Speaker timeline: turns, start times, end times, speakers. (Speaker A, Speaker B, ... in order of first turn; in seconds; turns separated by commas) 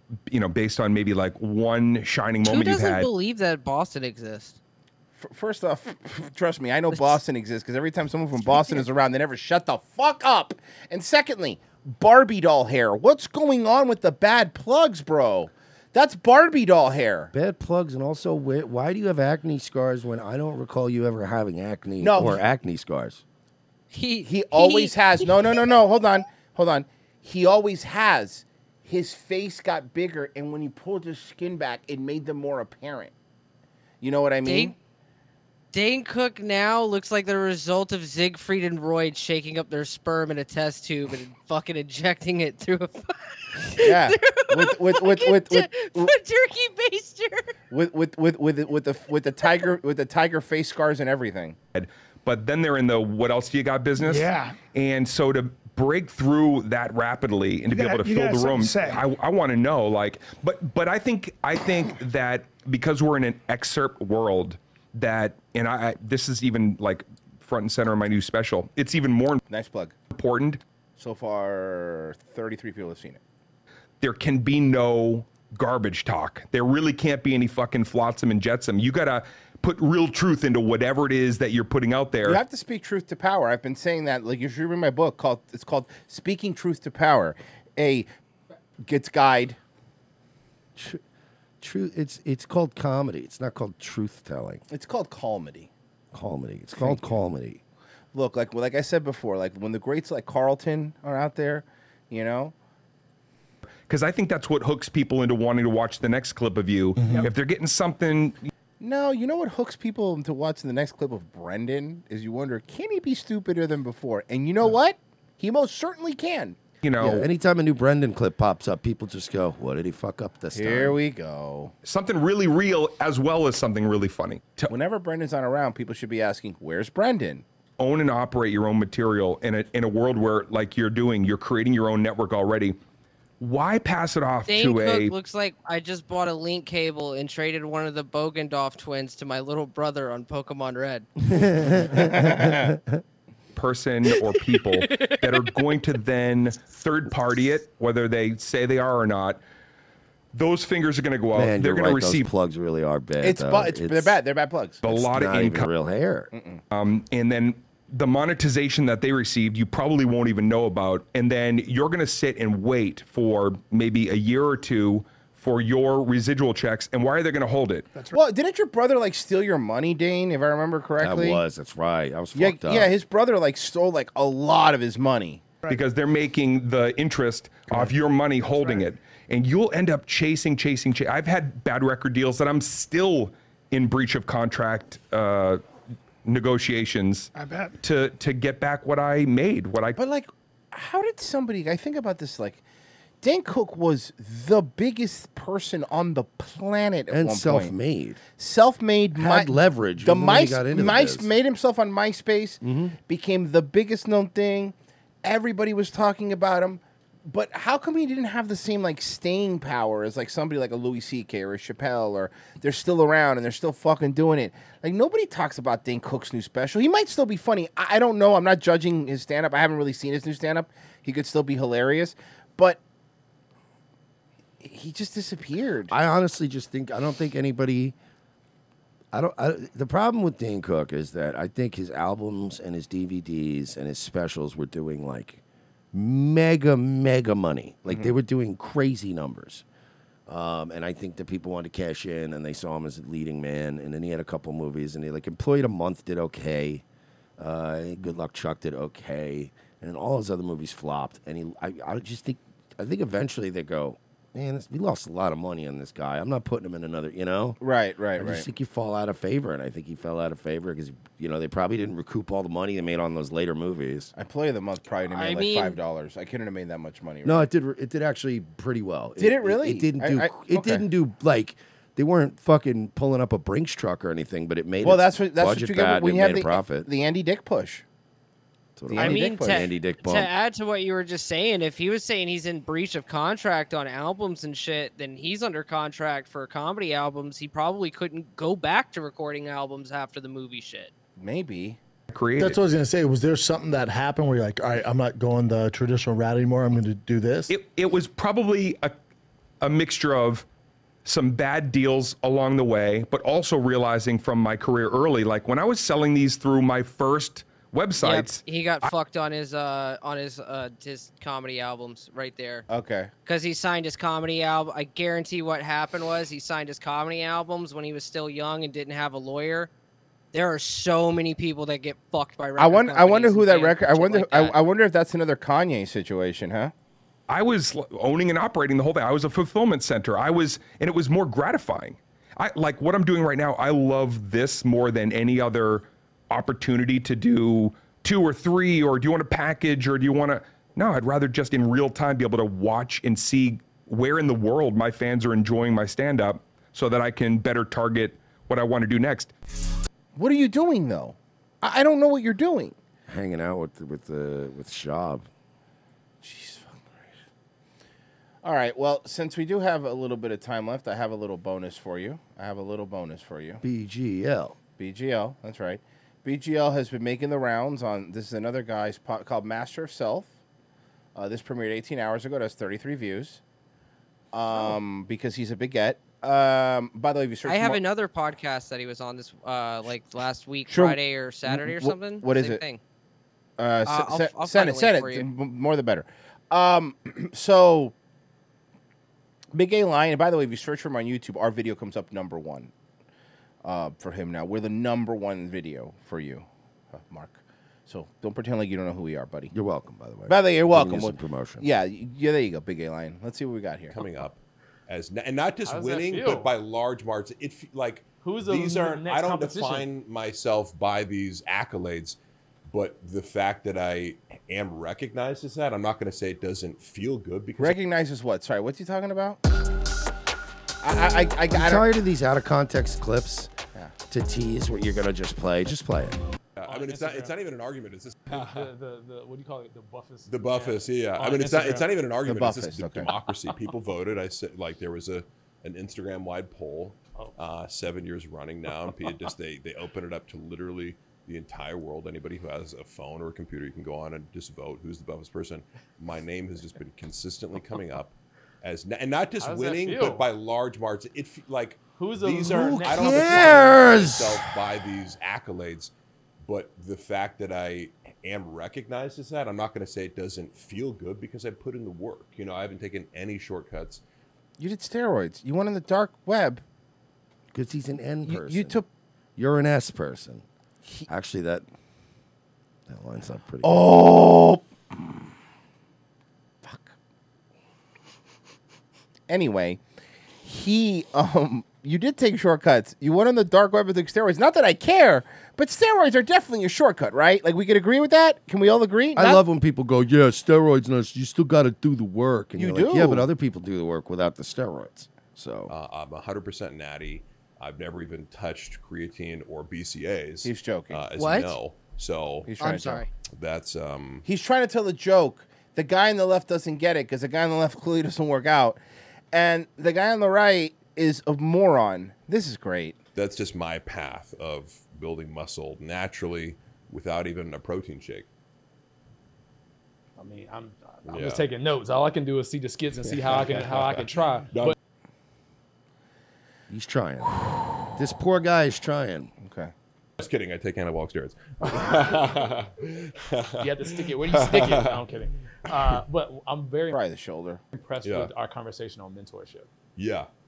Speaker A: 0.3-3.1, Speaker B: 2.4-4.6, Speaker C: 5.2-17.3, Speaker B: 6.9-7.2, Speaker B: 8.5-8.8, Speaker D: 17.3-23.2, Speaker C: 22.0-22.4, Speaker B: 23.9-25.3, Speaker C: 24.2-33.1, Speaker C: 34.0-34.8, Speaker B: 34.4-34.7, Speaker B: 35.7-47.5, Speaker C: 43.8-46.1, Speaker C: 47.7-51.5, Speaker A: 51.7-69.4, Speaker C: 69.5-69.9, Speaker A: 70.1-70.6, Speaker C: 71.0-73.2, Speaker A: 74.0-82.4, Speaker C: 82.2-88.1, Speaker C: 88.8-89.6, Speaker D: 90.8-91.0, Speaker D: 91.6-94.6, Speaker C: 94.7-95.7, Speaker D: 96.1-97.6, Speaker C: 96.8-97.2, Speaker C: 98.1-102.5, Speaker A: 103.9-108.5, Speaker E: 107.0-107.3, Speaker C: 108.8-116.6, Speaker A: 116.8-117.3, Speaker D: 117.0-121.0, Speaker C: 120.5-121.7, Speaker A: 121.8-124.7, Speaker C: 124.7-127.4, Speaker A: 127.8-132.8, Speaker A: 133.4-135.1, Speaker B: 134.5-141.1, Speaker D: 141.2-143.0, Speaker C: 142.1-142.7, Speaker A: 143.6-149.4, Speaker A: 150.3-152.3, Speaker D: 151.3-154.2, Speaker C: 153.2-154.8, Speaker A: 154.8-155.7, Speaker D: 154.8-156.3, Speaker C: 156.3-156.6, Speaker A: 156.7-167.9, Speaker C: 168.1-171.4, Speaker D: 171.0-172.9, Speaker C: 172.3-175.5, Speaker A: 175.7-185.6, Speaker A: 186.2-187.3, Speaker A: 187.8-190.0, Speaker C: 190.0-192.6, Speaker C: 193.2-197.7, Speaker D: 197.1-198.2, Speaker C: 198.4-222.8, Speaker D: 199.2-201.3, Speaker D: 202.6-203.0, Speaker C: 224.6-225.9, Speaker D: 225.9-227.9, Speaker D: 229.1-235.4, Speaker D: 235.9-239.6, Speaker C: 237.9-238.1, Speaker D: 240.3-246.8, Speaker D: 247.4-257.6, Speaker C: 257.6-258.5, Speaker D: 258.2-264.1, Speaker C: 264.1-267.4, Speaker B: 265.1-265.7, Speaker D: 267.2-276.9, Speaker C: 269.2-270.8, Speaker C: 274.8-277.8, Speaker D: 278.8-280.3, Speaker C: 278.9-279.7, Speaker B: 278.9-290.9, Speaker C: 291.2-291.8, Speaker A: 292.1-292.6, Speaker E: 292.4-297.5, Speaker A: 297.5-298.9, Speaker A: 299.6-300.4, Speaker A: 301.1-308.9, Speaker B: 308.0-312.6, Speaker C: 312.7-313.1, Speaker B: 313.3-319.7, Speaker B: 320.3-324.6, Speaker C: 322.6-326.7, Speaker A: 327.3-349.3, Speaker C: 350.1-352.8, Speaker D: 353.1-355.3, Speaker C: 356.2-357.1, Speaker C: 358.4-363.6, Speaker D: 363.6-364.6, Speaker C: 364.8-370.3, Speaker C: 371.1-373.4, Speaker C: 374.3-377.8, Speaker B: 377.5-382.8, Speaker C: 380.7-382.6, Speaker C: 383.6-387.9, Speaker B: 383.9-385.3, Speaker C: 389.5-392.7, Speaker C: 393.6-399.5, Speaker D: 399.5-401.7, Speaker C: 400.3-404.1, Speaker F: 403.9-412.1, Speaker G: 405.6-406.5, Speaker G: 408.2-409.9, Speaker F: 412.7-417.8, Speaker C: 417.6-419.4, Speaker C: 420.8-421.9, Speaker D: 421.5-423.5, Speaker D: 424.1-426.2, Speaker F: 426.6-428.7, Speaker G: 426.6-427.3, Speaker G: 428.3-431.9, Speaker F: 430.3-455.9, Speaker C: 432.2-433.1, Speaker G: 449.4-450.3, Speaker G: 451.9-453.6, Speaker D: 452.5-454.4, Speaker F: 456.4-464.0, Speaker C: 464.6-466.6, Speaker D: 467.5-468.8, Speaker C: 468.3-468.9, Speaker D: 469.4-470.4, Speaker D: 471.1-471.6, Speaker D: 472.9-473.9, Speaker C: 473.6-474.6, Speaker C: 476.6-476.9, Speaker C: 479.3-479.8, Speaker C: 480.4-489.4, Speaker D: 489.1-495.7, Speaker C: 492.6-493.3, Speaker F: 495.7-502.5, Speaker C: 500.4-501.0, Speaker B: 501.2-501.6, Speaker C: 502.4-503.1, Speaker B: 502.6-503.1, Speaker F: 503.4-504.2, Speaker C: 504.2-508.8, Speaker C: 509.3-513.0, Speaker F: 513.1-518.3, Speaker G: 520.2-524.7, Speaker F: 521.0-521.5, Speaker F: 523.0-524.7, Speaker D: 526.7-527.3, Speaker D: 528.0-529.3, Speaker C: 529.4-529.7, Speaker F: 530.2-535.1, Speaker G: 533.6-537.0, Speaker F: 535.7-536.0, Speaker C: 536.9-537.6, Speaker G: 537.7-539.7, Speaker F: 538.0-538.3, Speaker F: 540.0-540.3